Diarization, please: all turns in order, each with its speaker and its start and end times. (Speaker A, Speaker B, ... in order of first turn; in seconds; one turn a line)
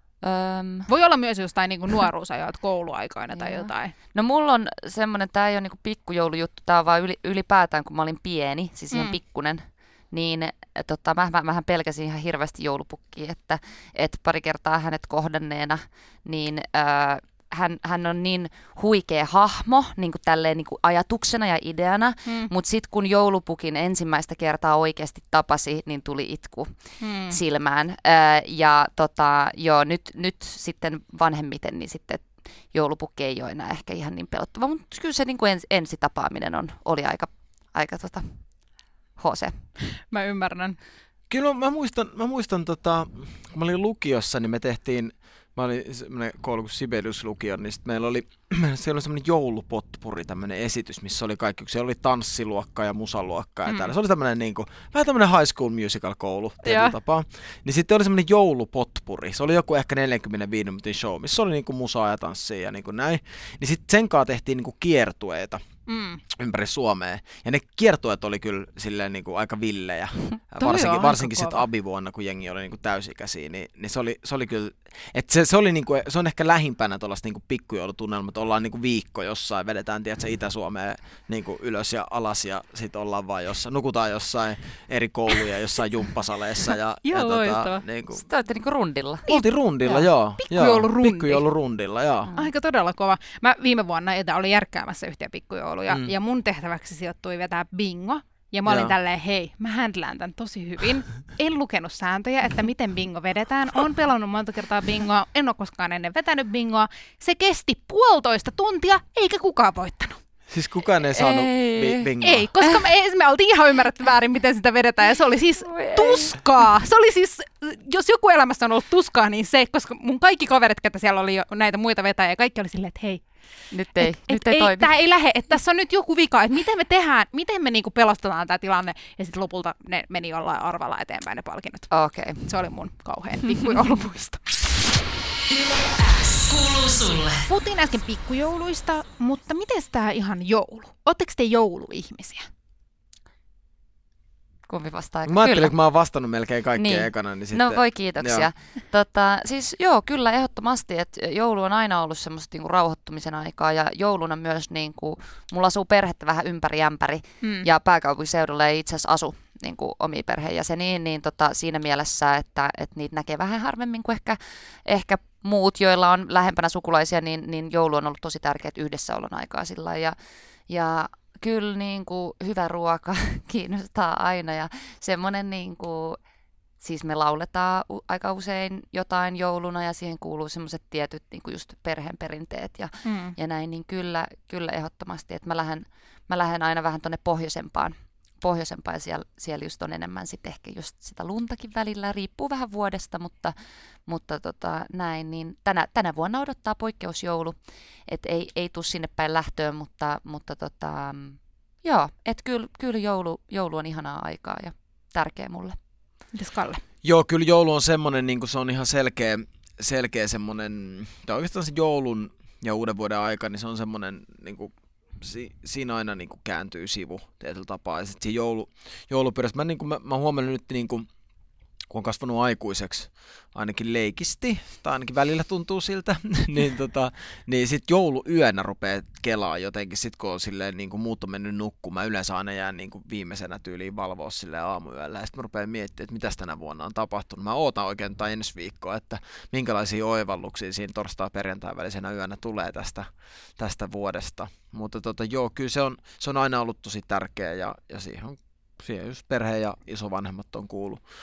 Speaker A: 0.2-0.9
Speaker B: 0.9-3.9
Speaker A: 3.3-26.7
Speaker B: 8.9-9.2
Speaker B: 22.3-22.5
Speaker B: 27.0-27.4
Speaker A: 27.3-38.6
Speaker A: 39.2-39.7
Speaker B: 40.0-40.8
Speaker C: 41.3-65.6
Speaker B: 53.7-53.9
Speaker B: 56.6-56.9
Speaker B: 65.9-66.2
Speaker C: 66.3-88.2
Speaker B: 70.6-71.6
Speaker B: 87.0-87.8
Speaker A: 88.2-89.3
Speaker C: 89.3-92.3
Speaker B: 90.4-91.5
Speaker A: 92.2-92.5
Speaker B: 92.3-110.2
Speaker C: 98.7-99.0
Speaker C: 110.5-112.5
Speaker A: 111.1-112.8
Speaker B: 112.2-123.2
Speaker A: 115.7-116.3
Speaker A: 123.7-124.9
Speaker B: 124.0-134.4
Speaker A: 131.9-132.5
Speaker D: 135.5-137.5
Speaker B: 137.5-142.5
Speaker A: 144.7-145.7
Speaker C: 145.2-148.5
Speaker A: 146.8-170.2
Speaker B: 157.4-157.7
Speaker A: 170.7-176.2
Speaker A: 176.8-193.5
Speaker B: 183.0-183.3
Speaker A: 194.1-205.8
Speaker B: 206.3-206.8
Speaker C: 207.0-221.1
Speaker C: 221.9-251.0